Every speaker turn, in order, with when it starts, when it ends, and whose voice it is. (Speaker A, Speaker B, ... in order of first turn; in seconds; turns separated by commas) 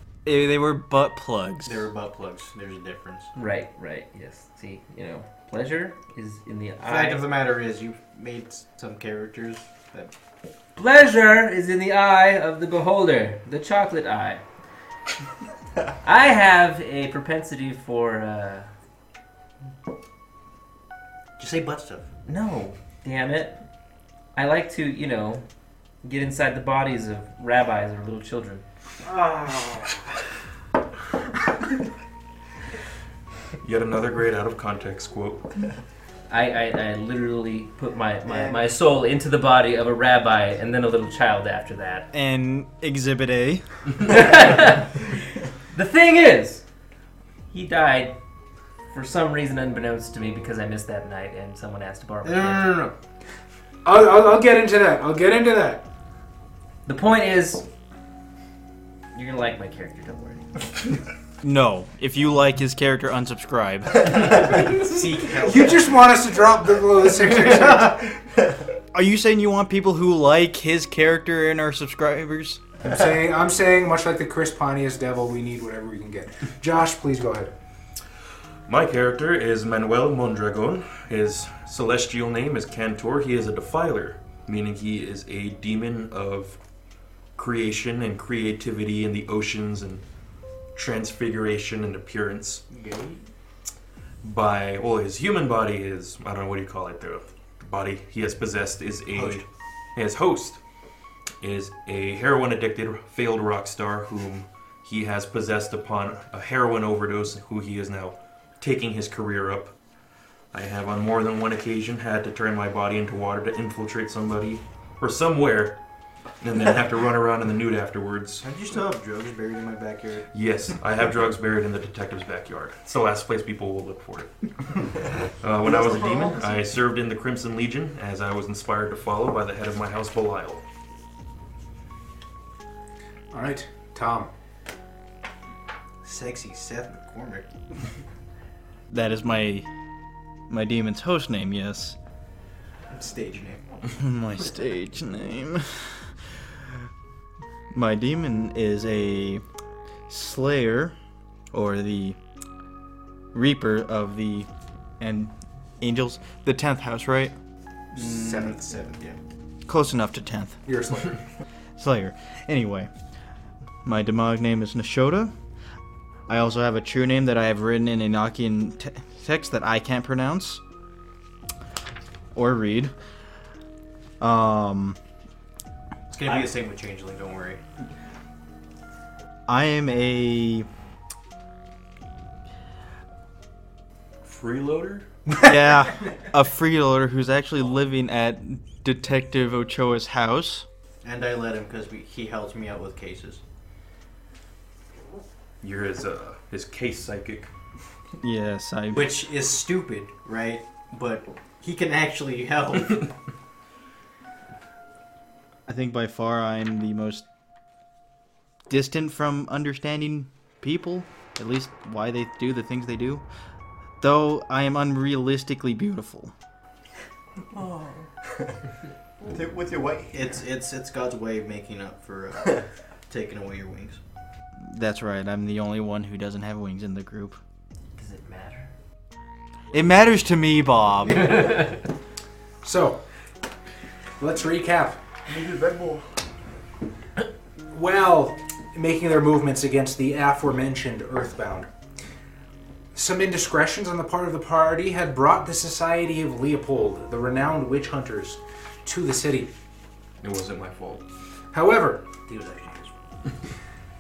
Speaker A: 0.2-1.9, Speaker B: 1.6-3.3, Speaker C: 3.3-7.2, Speaker B: 6.9-10.1, Speaker C: 10.8-14.4, Speaker C: 16.0-18.7, Speaker B: 21.4-22.1, Speaker C: 22.2-23.6, Speaker C: 24.3-25.4, Speaker C: 26.0-28.6, Speaker D: 29.1-29.8, Speaker E: 33.6-35.6, Speaker C: 36.3-42.1, Speaker B: 38.3-38.6, Speaker A: 42.1-43.6, Speaker C: 44.0-45.1, Speaker C: 45.7-46.6, Speaker C: 47.5-48.2, Speaker C: 48.9-52.8, Speaker B: 52.2-52.9, Speaker D: 53.8-55.9, Speaker C: 56.9-57.7, Speaker C: 59.1-60.5, Speaker A: 61.4-64.2, Speaker B: 64.0-65.9, Speaker D: 65.4-68.1, Speaker A: 68.9-72.6, Speaker D: 72.8-77.5, Speaker E: 78.7-86.6, Speaker E: 87.3-90.0, Speaker E: 90.8-92.6, Speaker B: 92.7-93.2, Speaker E: 94.2-100.6, Speaker E: 101.4-109.7, Speaker E: 110.5-115.8, Speaker E: 116.4-118.4, Speaker B: 118.4-120.3, Speaker E: 120.3-124.9, Speaker E: 125.4-130.6, Speaker F: 125.6-126.6, Speaker D: 133.3-134.3, Speaker B: 136.0-137.5, Speaker A: 138.9-139.7, Speaker A: 140.5-141.9, Speaker B: 142.9-143.6, Speaker A: 143.9-146.8, Speaker A: 147.7-149.4, Speaker A: 150.1-150.9, Speaker A: 151.5-152.2, Speaker A: 153.3-154.5, Speaker A: 155.0-157.3, Speaker B: 157.9-159.2, Speaker D: 157.9-158.6, Speaker A: 159.7-160.6, Speaker D: 160.7-161.2, Speaker A: 161.8-162.9, Speaker A: 163.8-165.3, Speaker A: 166.3-170.6, Speaker A: 172.3-172.9, Speaker A: 174.2-175.0, Speaker B: 176.1-177.6, Speaker A: 179.5-180.7, Speaker E: 184.2-185.1, Speaker A: 185.3-190.7, Speaker B: 191.0-193.4, Speaker E: 195.6-197.5, Speaker A: 198.2-199.1, Speaker B: 198.9-203.1, Speaker A: 205.7-207.2, Speaker A: 208.7-213.2, Speaker A: 214.0-216.3, Speaker F: 217.5-217.9, Speaker F: 219.2-220.4, Speaker B: 220.1-224.0, Speaker A: 224.6-227.4, Speaker C: 227.9-228.7, Speaker A: 229.7-231.7, Speaker D: 232.6-233.0, Speaker D: 234.2-235.0, Speaker F: 235.3-236.1, Speaker D: 237.7-241.7, Speaker D: 242.9-249.5, Speaker E: 250.2-251.0, Speaker D: 251.5-252.1, Speaker B: 252.3-253.0